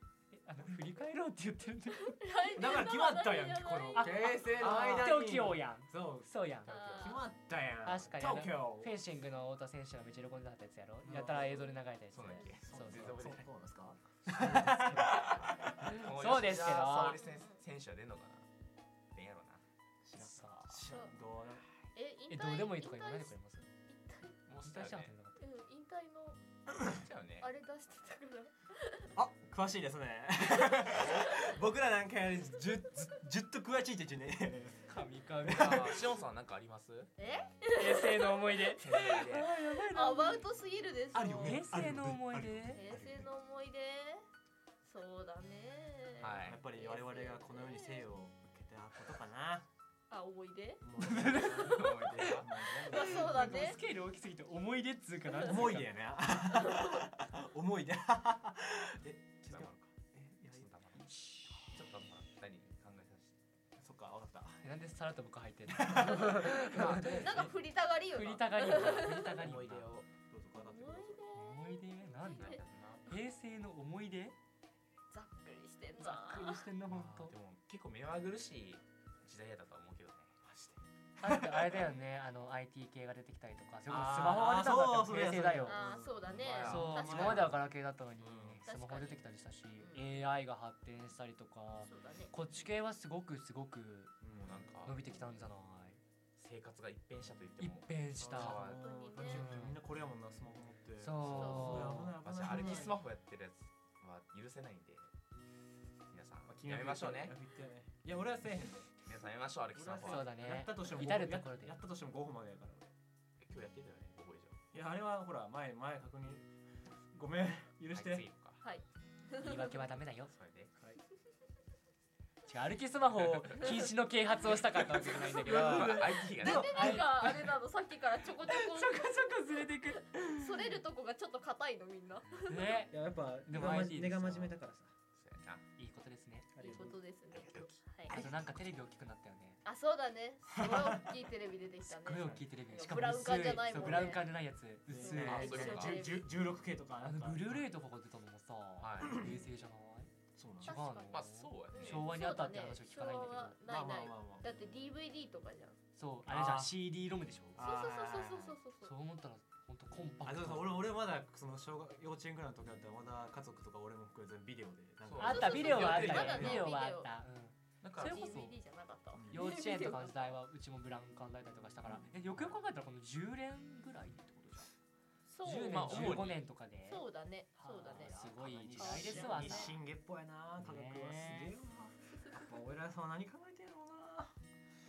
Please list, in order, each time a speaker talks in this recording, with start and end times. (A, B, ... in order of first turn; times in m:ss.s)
0:00.3-0:02.2 A
0:02.0-0:04.2 B
0:02.6-0:08.9 C
0:04.0-0:06.8 A
0:04.1-0:05.2 D
0:06.6-0:07.2 B
0:06.7-0:07.0 D
0:07.8-0:13.3 A
0:11.0-0:11.8 C
0:12.1-0:13.5 D
0:12.7-0:15.7 C
0:14.3-0:15.2 A
0:14.9-0:18.4 D
0:15.8-0:17.2 A
0:17.0-0:17.6 B
0:19.1-0:19.6 D
0:20.0-0:21.6 C
0:20.2-0:20.8 A
0:20.2-0:21.1 D
0:20.9-0:21.1 B
0:21.9-0:23.3 B
0:22.3-0:23.7 A
0:23.9-0:24.4 B
0:24.4-0:25.1 D
0:24.6-0:25.4 A
0:25.4-0:26.4 B
0:26.8-0:27.5 D
0:27.4-0:29.1 B
0:29.1-0:34.9 C
0:30.9-0:31.5 D
0:34.9-0:36.0 A
0:35.4-0:36.0 C
0:35.5-0:37.1 D
0:37.2-0:41.6 B
0:37.7-0:40.5 A
0:38.8-0:39.5 D
0:41.1-0:43.3 C
0:41.4-0:42.8 A
0:42.7-0:44.2 B
0:44.8-0:48.0 B
0:46.2-0:46.6 D
0:46.4-0:49.7 C
0:50.1-0:50.8 B
0:50.8-0:53.6 C
0:51.0-0:55.9 A
0:51.5-0:52.5 D
0:52.8-0:53.8 B
0:55.4-1:00.7 C
0:56.6-0:57.0 B
0:59.4-0:59.9 D
1:00.5-1:03.4 D
1:01.0-1:01.7 A
1:03.8-1:04.6 C
1:04.6-1:07.5 A
1:05.7-1:06.5 C
1:06.5-1:07.5 D
1:07.0-1:09.5 B
1:08.1-1:09.9 A
1:08.6-1:10.1 D
1:10.3-1:11.2 C
1:10.5-1:12.6 B
1:11.3-1:14.3 A
1:12.3-1:13.2 D
1:15.1-1:16.6 B
1:16.0-1:17.3 A
1:16.9-1:20.4 D
1:20.4-1:21.8 C
1:21.2-1:25.9 A
1:23.9-1:27.6 C
1:25.6-1:27.5 B
1:26.3-1:27.2 D
1:26.6-1:34.2 A
1:28.2-1:28.6 C
1:28.6-1:29.2 B
1:29.8-1:30.1 B
1:31.8-1:32.3 B
1:34.2-1:34.7 C
1:34.4-1:35.0 D
1:34.8-1:36.0 A
1:36.4-1:38.8 D
1:37.6-1:38.6 A
1:38.2-1:43.0 C
1:38.7-1:39.5 B
1:39.3-1:39.8 A
1:41.0-1:42.2 A
1:41.3-1:42.9 B
1:42.2-1:45.1 D
1:46.1-1:47.3 D
1:46.4-1:49.0 C
1:49.0-1:50.4 D
1:49.7-1:52.9 C
1:50.0-1:51.8 A
1:53.4-1:54.6 D
1:54.7-1:56.4 C
1:57.1-1:58.3 C
1:57.9-1:58.6 D
1:58.6-1:59.8 B
1:59.4-2:00.3 A
2:00.3-2:00.7 D
2:02.4-2:07.5 A
2:05.2-2:07.0 D
2:05.8-2:07.5 C
2:06.4-2:09.5 B
2:08.4-2:10.8 A
2:10.2-2:12.8 B
2:12.4-2:14.5 A
2:12.9-2:14.9 C
2:15.2-2:15.6 D
2:15.8-2:16.5 A
2:16.5-2:17.0 C
2:16.6-2:18.2 B
2:17.3-2:17.8 D
2:18.1-2:18.6 C
2:18.1-2:19.6 A
2:19.6-2:24.3 B
2:20.5-2:21.1 C
2:21.8-2:25.9 A
2:24.9-2:27.7 C
2:25.0-2:26.3 B
2:25.2-2:26.2 D
2:27.0-2:30.1 A
2:28.8-2:29.2 D
2:30.3-2:30.8 C
2:30.6-2:33.6 A
2:30.6-2:35.8 B
2:31.1-2:32.2 D
2:33.7-2:34.4 C
2:36.0-2:37.6 A
2:36.2-2:36.8 C
2:37.6-2:38.6 C
2:37.6-2:38.9 B
2:38.8-2:40.9 A
2:40.2-2:46.6 C
2:45.0-2:46.7 D
2:45.2-2:48.6 A
2:45.2-2:47.1 B
2:47.8-2:48.3 D
2:48.0-2:50.3 B
2:49.1-2:49.5 C
2:49.3-2:54.7 A
2:55.3-2:56.0 B
2:55.4-2:57.1 A
2:55.6-2:56.4 D
2:56.8-2:59.8 B
2:57.6-2:59.7 A
2:57.9-3:04.3 C
2:59.1-2:59.7 D
3:00.6-3:01.5 A